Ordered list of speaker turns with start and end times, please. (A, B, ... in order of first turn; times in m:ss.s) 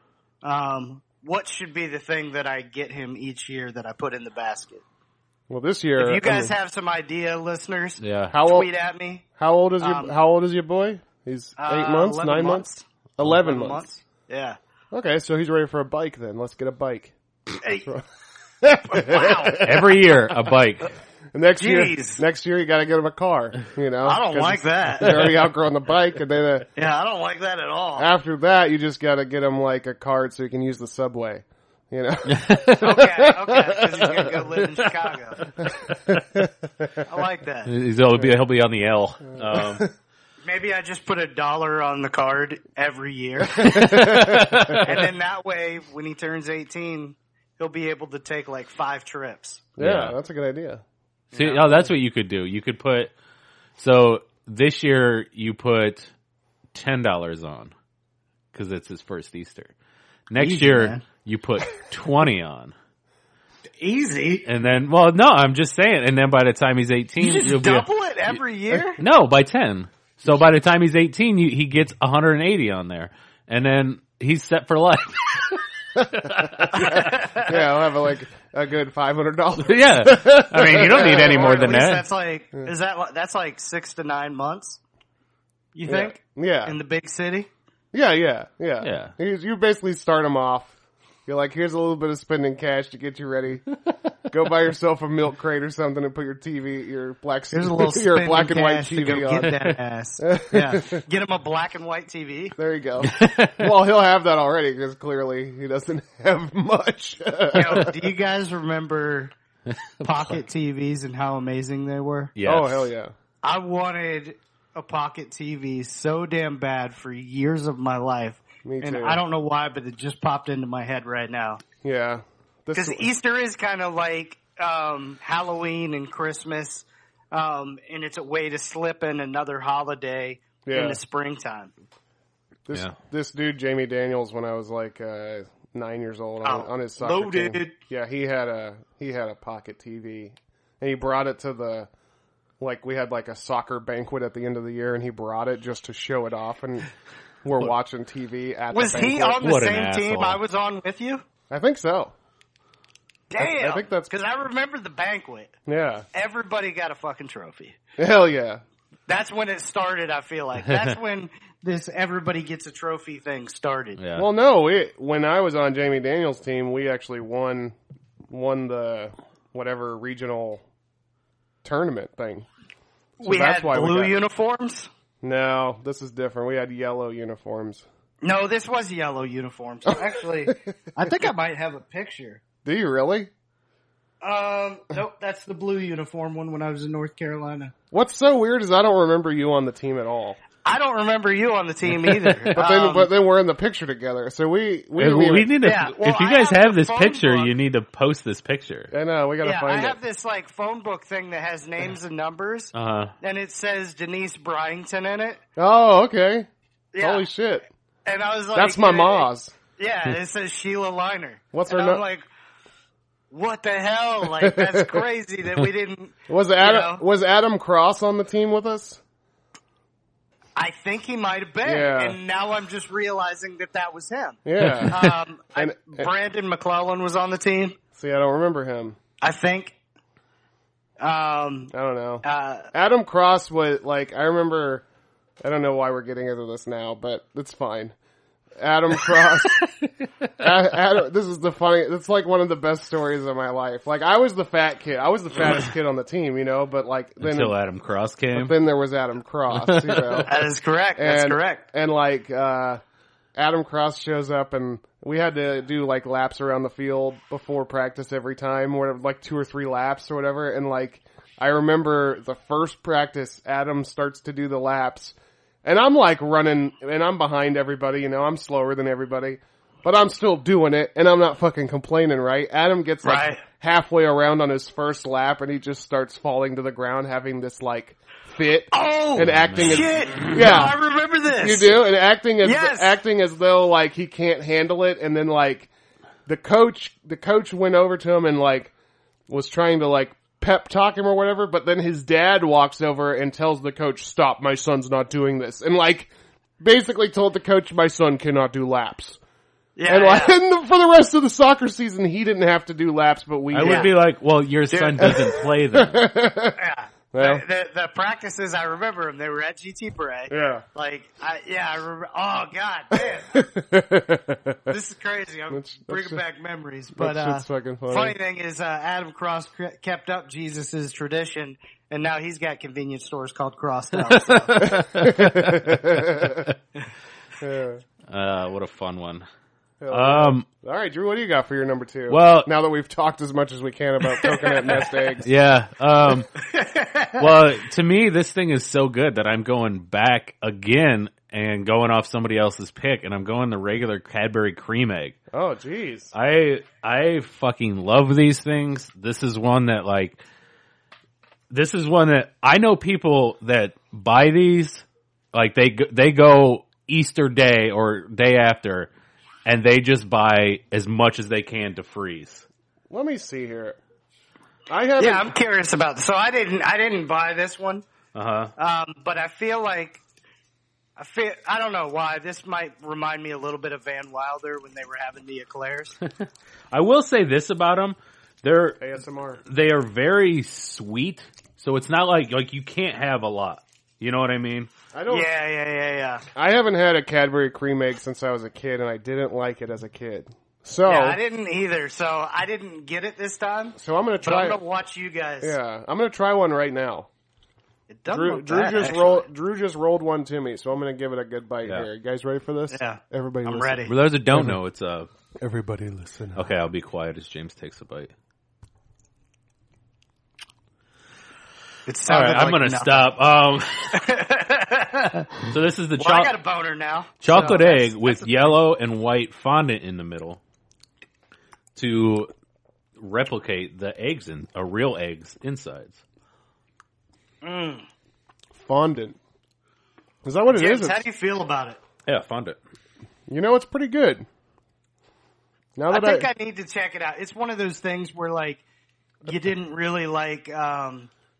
0:00.4-0:04.8 A
0:05.5-0:06.5 B
0:06.0-0:09.2 A
0:08.0-0:08.4 C
0:08.3-0:08.7 B
0:09.4-0:12.7 B
0:09.8-0:10.1 A
0:11.6-0:14.6 A
0:13.2-0:13.8 B
0:14.9-0:17.1 B
0:17.6-0:17.9 A
0:18.6-0:20.0 B
0:18.9-0:19.6 A
0:19.6-0:20.9 C
0:21.3-0:26.7 B
0:21.6-0:22.2 A
0:24.0-0:25.3 A
0:26.8-0:28.1 A
0:28.0-0:34.3 B
0:32.3-0:32.9 C
0:32.8-0:35.4 A
0:35.4-0:36.1 C
0:35.6-0:36.9 B
0:37.0-0:37.7 A
0:37.6-0:39.9 C
0:39.3-0:39.9 B
0:40.4-0:44.0 A
0:43.6-0:44.8 B
0:43.6-0:45.0 C
0:44.8-0:49.6 A
0:49.8-0:50.8 B
0:49.8-0:50.1 C
0:51.3-0:51.8 A
0:51.3-0:53.1 C
0:53.8-0:56.1 C
0:56.7-0:57.7 C
0:58.5-0:59.7 C
1:00.3-1:02.7 C
1:00.4-1:01.0 A
1:03.8-1:04.4 A
1:04.4-1:07.9 C
1:07.2-1:09.0 A
1:09.0-1:16.7 C
1:16.0-1:21.8 B
1:16.7-1:17.6 A
1:19.6-1:22.1 C
1:20.9-1:24.8 A
1:25.7-1:27.5 A
1:25.9-1:26.8 B
1:27.9-1:30.7 B
1:28.8-1:29.1 C
1:31.3-1:33.7 B
1:34.3-1:39.6 B
1:37.5-1:42.6 A
1:40.2-1:41.0 B
1:42.6-1:47.9 B
1:43.0-1:43.7 C
1:47.5-1:49.3 A
1:49.7-1:50.4 C
1:50.0-1:52.3 A
1:52.4-1:52.9 C
1:52.4-1:53.1 B
1:53.4-2:01.6 A
1:58.6-1:59.2 B
2:01.8-2:03.1 B
2:02.7-2:11.7 A
2:10.6-2:11.0 B
2:12.6-2:21.9 B
2:16.4-2:17.8 A
2:22.6-2:26.9 B
2:27.4-2:29.4 B
2:28.7-2:31.2 A
2:29.4-2:30.4 C
2:31.5-2:32.1 B
2:33.3-2:35.5 A
2:33.4-2:34.1 B
2:35.7-2:36.0 B
2:36.1-2:37.8 A
2:38.0-2:38.6 B
2:39.1-2:44.0 A
2:40.7-2:40.9 C
2:44.0-2:44.3 C
2:44.2-2:47.8 B
2:48.3-2:50.6 B
2:51.6-2:52.5 B
2:53.2-2:54.2 B
2:53.2-2:54.9 A
2:55.2-2:57.8 B
2:58.2-3:02.4 A
3:02.6-3:03.3 B
3:04.2-3:07.7 A
3:07.9-3:10.4 B
3:10.6-3:13.1 A
3:12.5-3:15.5 B
3:15.0-3:18.9 C
3:15.6-3:17.5 A
3:18.9-3:20.0 B
3:19.4-3:25.4 A
3:22.7-3:23.1 C
3:25.6-3:26.5 B
3:26.9-3:27.3 A
3:27.0-3:27.6 B
3:28.0-3:32.2 A
3:28.5-3:29.5 B
3:31.5-3:32.0 B
3:33.3-3:37.0 A
3:34.2-3:35.0 B
3:36.3-3:39.0 B
3:40.6-3:47.8 A
3:41.6-3:42.2 B
3:44.4-3:45.0 B
3:44.6-3:45.0 C
3:45.5-3:46.1 B
3:47.9-3:49.0 B
3:49.2-3:49.7 A
3:51.0-3:51.7 A
3:51.7-3:54.8 B
3:52.2-3:52.7 A
3:55.4-3:57.9 B
3:58.6-3:59.6 B
4:00.4-4:07.6 B
4:07.2-4:08.6 C
4:08.3-4:10.3 B
4:09.5-4:10.3 C
4:10.3-4:11.6 A
4:11.0-4:12.8 B
4:13.4-4:40.8 B
4:33.0-4:33.4 A
4:38.7-4:41.8 A
4:39.2-4:40.3 C
4:41.4-4:45.7 B
4:42.4-4:43.0 A
4:46.2-4:48.7 B
4:49.3-4:59.2 B
4:59.8-5:00.4 A
4:59.9-5:03.9 B
5:03.5-5:06.1 C
5:03.6-5:03.9 A
5:04.7-5:05.2 A
5:05.0-5:06.6 B
5:06.6-5:13.4 A
5:07.1-5:07.4 B
5:10.3-5:10.6 B
5:13.0-5:14.7 B
5:14.7-5:24.7 A
5:15.5-5:16.2 B
5:17.0-5:18.2 B
5:24.1-5:26.2 C
5:24.6-5:26.5 B
5:27.4-5:27.8 B
5:28.1-5:29.2 C
5:29.8-5:35.3 B
5:29.9-5:30.4 C
5:32.1-5:32.5 C
5:34.2-5:34.8 A
5:35.2-5:36.3 C
5:36.4-5:37.3 A
5:37.2-5:45.2 C
5:45.3-5:46.1 B
5:46.1-5:50.2 C
5:51.5-5:58.9 C
5:59.4-6:02.4 C
6:02.9-6:03.8 B
6:04.7-6:05.3 B
6:05.0-6:07.8 A
6:08.1-6:08.5 C
6:08.6-6:10.0 A
6:11.0-6:16.0 A
6:16.0-6:18.8 C
6:18.8-6:19.4 B
6:19.5-6:24.7 C
6:24.9-6:25.3 B
6:25.1-6:26.2 A
6:26.3-6:31.2 B
6:30.8-6:35.6 A
6:33.8-6:34.6 B
6:35.4-6:37.1 B
6:37.9-6:39.2 A
6:38.1-6:44.6 B
6:42.7-6:43.9 A
6:43.8-6:45.1 C
6:45.4-6:46.5 B
6:46.3-6:48.1 C
6:51.8-6:53.1 A
6:52.1-6:54.0 C
6:53.9-6:55.3 A
6:55.5-6:56.3 C
6:56.0-6:58.5 A
6:57.2-7:00.4 C
7:01.8-7:02.3 C
7:03.0-7:06.0 C
7:07.4-7:07.8 A
7:08.5-7:09.2 B
7:10.2-7:11.0 B
7:10.5-7:11.8 A
7:12.0-7:12.6 C
7:13.3-7:14.2 B
7:15.8-7:16.3 B
7:15.9-7:18.6 A
7:19.2-7:21.1 A